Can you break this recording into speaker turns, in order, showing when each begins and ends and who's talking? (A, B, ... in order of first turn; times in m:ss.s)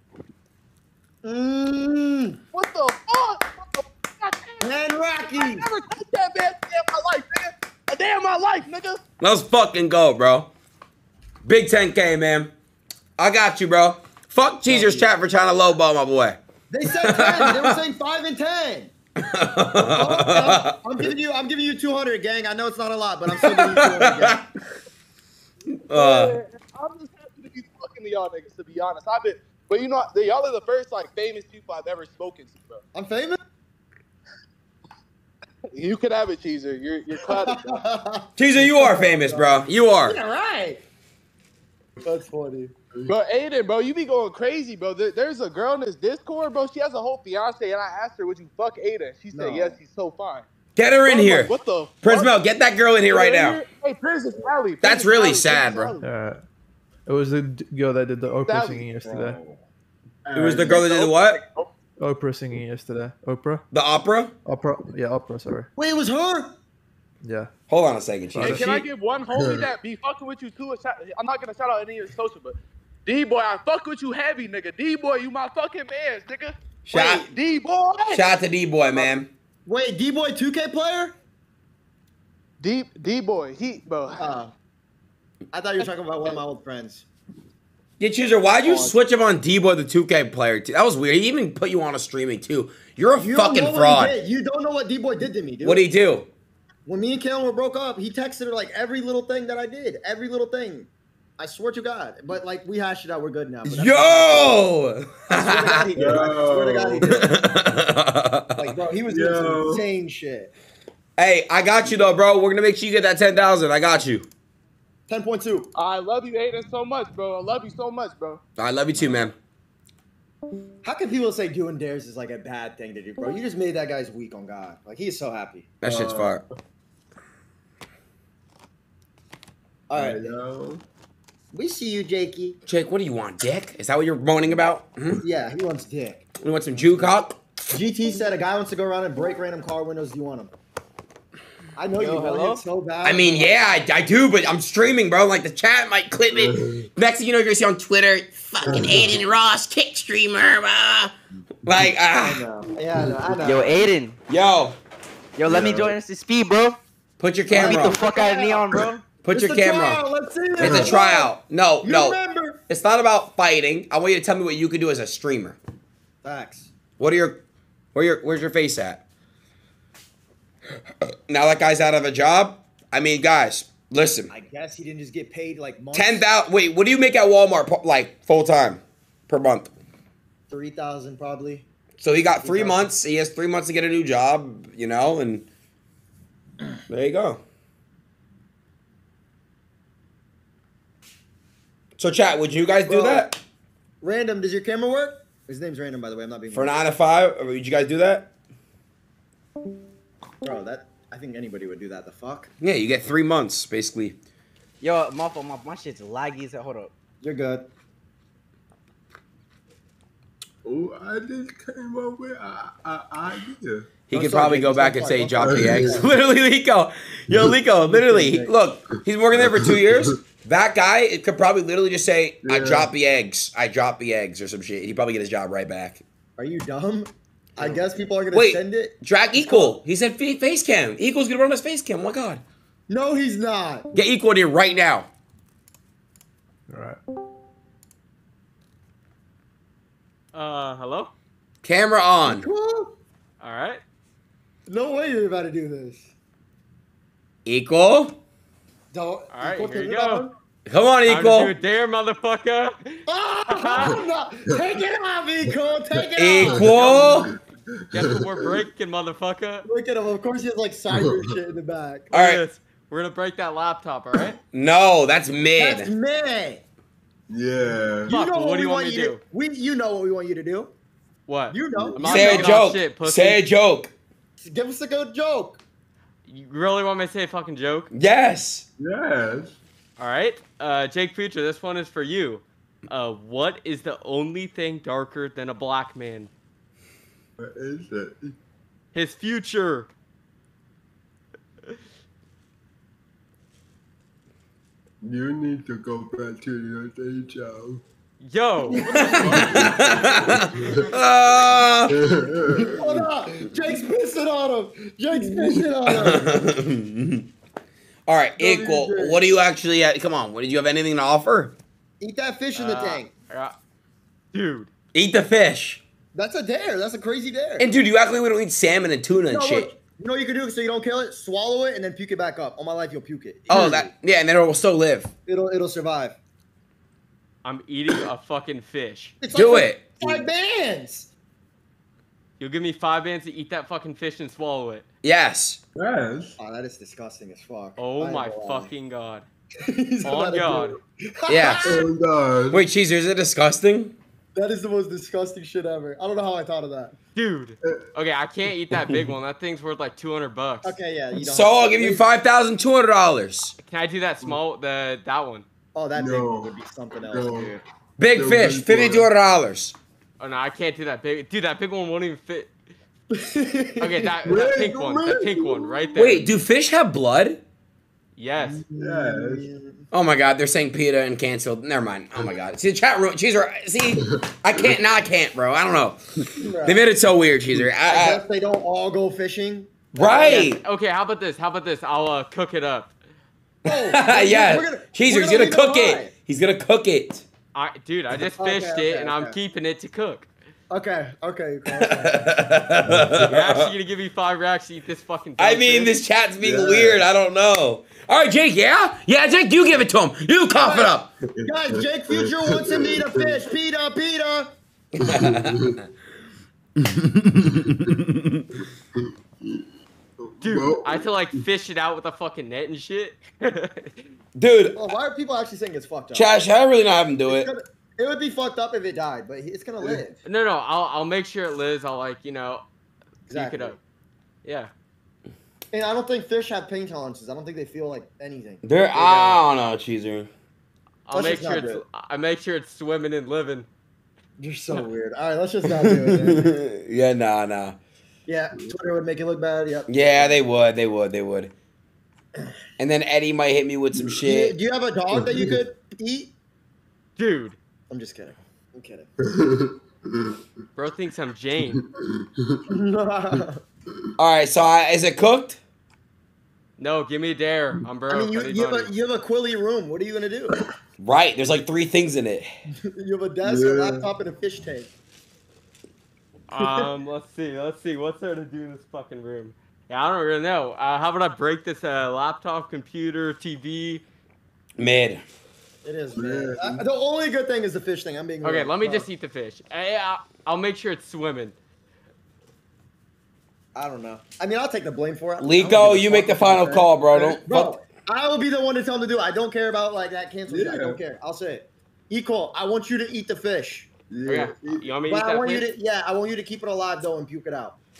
0:01.2-0:02.4 A
0:02.5-0:04.7 B
0:04.6-0:05.7 A
0:05.3-0:09.0 B
0:09.2-0:10.5 C
0:11.4-0:12.5 C
0:13.2-0:17.8 C
0:14.7-0:15.1 A
0:16.7-0:18.9 A
0:19.2-0:20.8 C
0:19.8-0:24.5 A
0:23.4-0:24.4 C
0:25.8-0:26.3 C
0:25.9-0:32.8 B
0:32.9-0:33.4 A
0:35.7-0:37.8 B
0:37.2-0:40.8 A
0:38.4-0:40.2 C
0:42.0-0:42.7 A
0:43.1-0:50.5 B
0:49.3-0:49.8 A
0:50.8-0:53.6 C
0:51.0-0:52.4 B
0:53.0-0:56.0 B
0:54.8-0:55.9 C
0:56.0-0:56.4 D
0:57.0-0:59.4 D
0:58.5-0:59.4 B
1:00.2-1:00.8 E
1:00.3-1:01.4 C
1:00.6-1:01.7 B
1:02.0-1:03.6 D
1:03.7-1:04.3 C
1:04.4-1:05.7 D
1:05.8-1:06.5 A
1:07.2-1:07.5 D
1:07.7-1:08.8 C
1:08.3-1:08.6 D
1:08.4-1:18.3 B
1:09.3-1:09.7 E
1:16.8-1:17.3 C
1:18.1-1:19.3 C
1:19.6-1:21.2 A
1:22.6-1:24.3 B
1:24.2-1:24.5 A
1:25.5-1:27.0 A
1:25.8-1:26.4 B
1:28.0-1:34.2 C
1:28.6-1:29.0 A
1:33.2-1:35.8 A
1:35.6-1:36.3 C
1:36.8-1:44.6 A
1:43.6-1:45.9 C
1:45.3-1:47.4 A
1:45.9-1:47.2 E
1:47.1-1:48.7 C
1:48.6-1:50.5 A
1:49.1-1:49.8 E
1:51.2-1:54.3 C
1:55.1-1:55.7 A
1:55.7-1:58.4 B
1:58.6-1:59.3 C
2:00.8-2:05.7 A
2:05.8-2:06.4 C
2:05.8-2:06.4 E
2:09.9-2:10.3 A
2:09.9-2:10.8 E
2:11.5-2:12.6 A
2:12.7-2:15.2 C
2:15.2-2:17.1 A
2:16.4-2:17.4 C
2:17.7-2:20.5 A
2:21.8-2:23.6 A
2:21.9-2:22.6 F
2:23.0-2:31.1 C
2:26.3-2:26.9 E
2:28.6-2:29.2 E
2:31.6-2:32.4 C
2:32.1-2:33.9 A
2:32.9-2:33.5 E
2:33.4-2:34.2 F
2:34.3-2:34.8 C
2:35.4-2:36.8 F
2:35.5-2:36.0 E
2:37.2-2:38.0 C
2:37.5-2:39.1 F
2:37.5-2:42.6 A
2:39.2-2:40.0 C
2:40.6-2:45.6 C
2:40.6-2:40.9 E
2:46.2-2:46.7 A
2:47.0-2:47.4 C
2:47.9-2:49.0 C
2:51.3-2:54.3 C
2:54.3-2:56.3 A
2:55.9-2:59.7 C
3:00.5-3:01.6 A
3:02.0-3:05.5 C
3:02.4-3:02.9 A
3:06.9-3:07.4 C
3:12.0-3:13.4 C
3:12.8-3:13.3 A
3:14.0-3:16.7 A
3:16.5-3:18.3 C
3:20.4-3:22.5 A
3:22.6-3:24.2 C
3:24.8-3:26.9 F
3:27.2-3:27.7 A
3:30.6-3:33.9 E
3:34.1-3:46.0 C
3:34.1-3:36.1 A
3:35.4-3:36.1 E
3:37.9-3:38.5 A
3:39.4-3:40.2 E
3:42.4-3:42.9 E
3:46.4-3:49.8 A
3:48.3-3:52.4 C
3:52.9-3:53.9 A
3:53.9-3:55.1 C
3:56.7-3:57.0 D
4:00.3-4:01.1 G
4:01.6-4:02.4 C
4:02.2-4:02.9 A
4:03.4-4:03.8 G
4:04.7-4:06.1 A
4:07.4-4:08.2 C
4:08.9-4:10.3 A
4:09.3-4:10.3 G
4:10.7-4:11.5 C
4:11.0-4:14.0 G
4:13.1-4:16.7 A
4:16.2-4:17.3 C
4:16.4-4:18.6 E
4:17.9-4:19.7 G
4:19.6-4:22.1 A
4:20.9-4:21.2 E
4:22.1-4:22.4 C
4:22.1-4:24.4 G
4:24.5-4:25.9 C
4:25.6-4:26.6 A
4:27.3-4:28.1 E
4:28.1-4:30.7 A
4:28.1-4:29.2 G
4:31.3-4:33.4 G
4:31.5-4:32.6 A
4:32.0-4:33.9 C
4:34.4-4:35.6 A
4:36.3-4:37.9 G
4:37.9-4:38.6 C
4:38.8-4:39.6 E
4:40.0-4:46.3 G
4:47.4-4:48.3 E
4:48.9-4:49.9 G
4:55.0-4:57.8 E
4:58.2-4:59.0 G
4:58.7-4:59.6 A
4:58.7-5:00.9 E
4:58.9-5:02.0 C
5:01.9-5:03.6 E
5:02.8-5:06.4 A
5:05.1-5:05.6 E
5:05.9-5:07.3 C
5:08.1-5:11.5 C
5:08.4-5:09.2 E
5:12.0-5:13.1 A
5:12.5-5:13.5 G
5:14.3-5:14.7 G
5:14.9-5:15.8 C
5:16.1-5:17.7 A
5:17.6-5:19.7 C
5:19.3-5:23.8 A
5:23.5-5:25.1 C
5:25.2-5:26.2 A
5:27.4-5:29.2 G
5:29.2-5:31.1 A
5:29.3-5:30.0 C
5:32.4-5:34.8 G
5:35.0-5:35.6 C
5:35.7-5:36.3 E
5:36.4-5:38.7 A
5:37.8-5:39.2 G
5:39.6-5:41.9 A
5:40.0-5:40.8 G
5:41.3-5:41.7 C
5:41.6-5:42.6 E
5:42.5-5:44.0 C
5:44.3-5:47.0 A
5:47.2-5:50.7 G
5:50.6-5:52.0 A
5:51.2-5:53.5 C
5:53.6-5:55.4 G
5:55.7-5:57.6 A
5:55.9-5:57.6 E
5:58.0-5:59.7 C
5:58.1-5:59.1 E
6:00.2-6:02.5 G
6:03.1-6:04.4 A
6:03.8-6:06.3 G
6:04.2-6:06.0 E
6:06.0-6:07.4 C
6:08.2-6:08.6 G
6:08.4-6:09.8 A
6:08.8-6:09.5 E
6:09.9-6:16.0 C
6:16.4-6:16.8 A
6:16.6-6:18.2 C
6:17.9-6:20.5 A
6:20.0-6:20.6 C
6:20.1-6:22.9 G
6:23.6-6:27.2 C
6:23.6-6:26.1 A
6:27.5-6:30.2 G
6:28.4-6:29.4 A
6:30.7-6:32.4 A
6:31.8-6:33.7 C
6:33.2-6:35.9 G
6:35.4-6:41.1 C
6:36.4-6:37.0 E
6:40.5-6:44.5 A
6:41.4-6:43.4 E
6:45.0-6:45.8 C
6:45.0-6:45.8 E
6:46.8-6:48.4 C
6:47.6-6:47.9 E
6:49.4-6:51.4 E
6:50.4-6:54.0 G
6:54.4-6:54.8 C
6:54.8-6:56.4 A
6:56.1-6:57.5 C
6:57.3-7:00.2 A
7:00.2-7:02.6 G
7:03.3-7:03.8 G
7:03.3-7:03.8 A
7:04.4-7:04.7 G
7:05.7-7:09.4 A
7:08.6-7:10.3 C
7:11.1-7:13.7 G
7:11.1-7:11.8 A
7:14.4-7:16.5 A
7:15.7-7:17.8 C
7:18.3-7:20.4 A
7:19.9-7:21.5 C
7:22.8-7:24.6 C
7:24.2-7:26.3 A
7:25.1-7:25.6 E
7:27.2-7:27.6 G
7:27.9-7:29.1 A
7:29.2-7:30.4 E
7:30.7-7:31.8 G
7:31.8-7:32.6 E
7:32.7-7:33.6 A
7:34.2-7:35.6 C
7:36.8-7:38.9 G
7:38.1-7:40.5 A
7:41.0-7:42.5 C
7:42.9-7:44.9 A
7:43.4-7:44.1 E
7:46.5-7:54.0 G
7:46.6-7:46.9 A
7:54.8-7:55.2 C
7:55.8-7:59.0 A
7:56.1-7:56.8 E
7:58.4-8:01.5 G
8:03.7-8:13.9 A
8:05.4-8:07.7 C
8:10.5-8:11.0 E
8:14.1-8:14.9 E
8:14.3-8:15.7 G
8:15.1-8:17.8 A